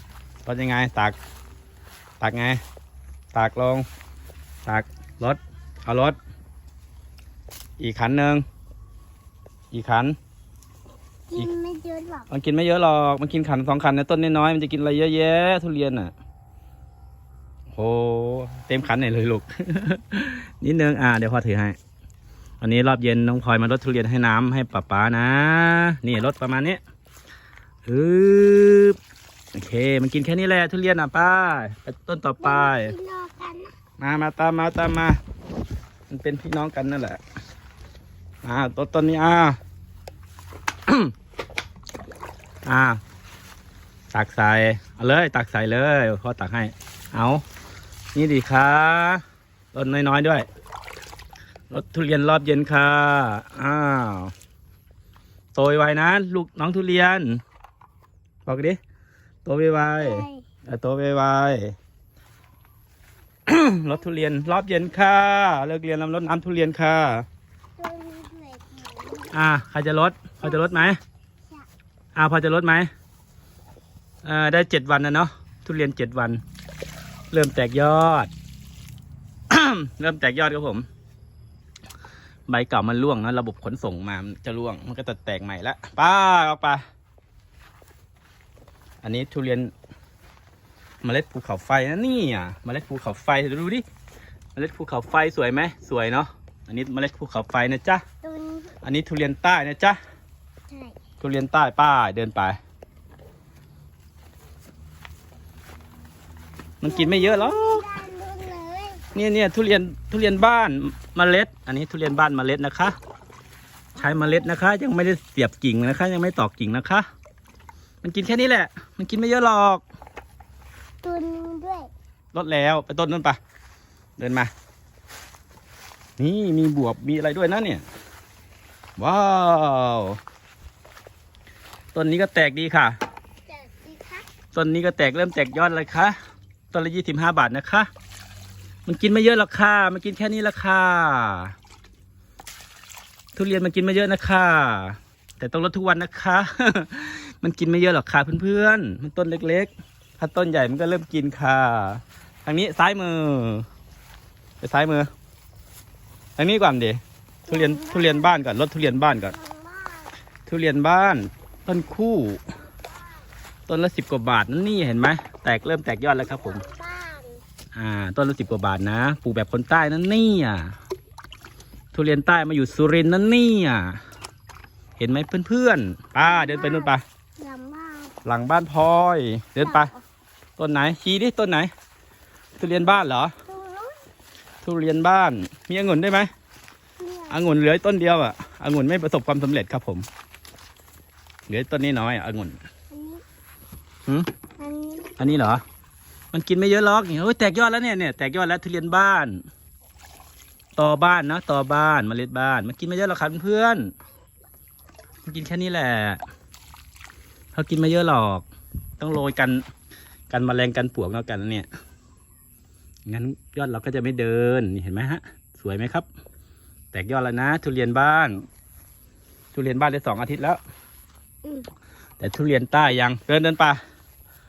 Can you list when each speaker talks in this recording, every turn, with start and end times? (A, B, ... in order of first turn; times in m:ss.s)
0:00.4-0:01.2 A
0:02.2-0:02.6 A
0:03.3-0:03.9 A
0:04.7-0:06.2 A
0:07.8-0:08.4 A
0:09.7-0:10.2 A
0:11.3-0:12.3 B
0:12.3-0:16.1 A
0:17.7-0:21.8 A
0:22.6-0:26.8 A
0:27.9-0:29.0 A
0:29.5-0:32.9 A
0:32.4-0:33.7 B
0:34.0-0:35.2 A
0:36.1-0:37.2 A
0:38.4-0:39.6 A
0:42.6-0:43.0 A
0:44.1-0:47.4 A
0:48.2-0:50.5 A
0:51.7-0:54.3 A
0:55.6-0:57.4 A
0:58.5-0:58.8 A
0:59.4-1:01.7 A
1:00.0-1:00.5 B
1:03.5-1:07.3 A
1:07.8-1:09.3 B
1:09.3-1:11.0 A
1:10.4-1:10.9 B
1:12.2-1:12.9 A
1:14.2-1:16.4 A
1:17.3-1:18.3 A
1:19.5-1:20.9 A
1:22.5-1:26.8 A
1:29.0-1:29.7 A
1:31.0-1:33.8 A
1:34.6-1:38.0 A
1:38.2-1:38.8 B
1:38.8-1:40.0 A
1:40.7-1:41.0 B
1:41.2-1:42.6 A
1:46.8-1:47.8 A
1:46.8-1:49.0 B
1:49.1-1:53.0 A
1:54.0-1:57.1 A
1:54.0-1:54.6 B
1:58.0-1:59.8 A
2:01.0-2:01.9 B
2:02.3-2:03.4 A
2:04.2-2:04.5 A
2:06.2-2:07.8 A
2:09.0-2:10.2 A
2:11.9-2:13.0 A
2:13.5-2:14.3 B
2:14.5-2:16.2 A
2:16.7-2:17.9 A
2:18.9-2:21.6 A
2:23.4-2:33.7 A
2:34.6-2:35.1 A
2:36.4-2:39.4 A
2:37.5-2:38.4 B
2:39.3-2:40.1 B
2:40.5-2:42.4 A
2:43.7-2:46.6 A
2:46.5-2:47.4 B
2:47.8-2:50.8 A
2:51.9-2:54.0 A
2:55.0-2:57.0 A
2:56.2-2:58.2 B
2:58.2-2:59.9 A
2:59.6-3:00.0 B
3:00.6-3:01.7 A
3:02.6-3:03.3 A
3:03.5-3:04.0 B
3:04.6-3:06.3 A
3:07.0-3:07.4 B
3:07.3-3:10.1 A
3:11.5-3:12.6 A
3:12.9-3:13.2 B
3:14.6-3:15.1 B
3:15.2-3:15.6 A
3:16.3-3:19.4 A
3:20.8-3:23.9 A
3:25.3-3:26.2 A
3:27.6-3:28.5 A
3:29.0-3:29.6 A
3:30.3-3:31.7 A
3:33.1-3:36.1 A
3:36.9-3:38.4 A
3:39.5-3:40.6 A
3:41.4-3:41.7 B
3:42.2-3:43.8 A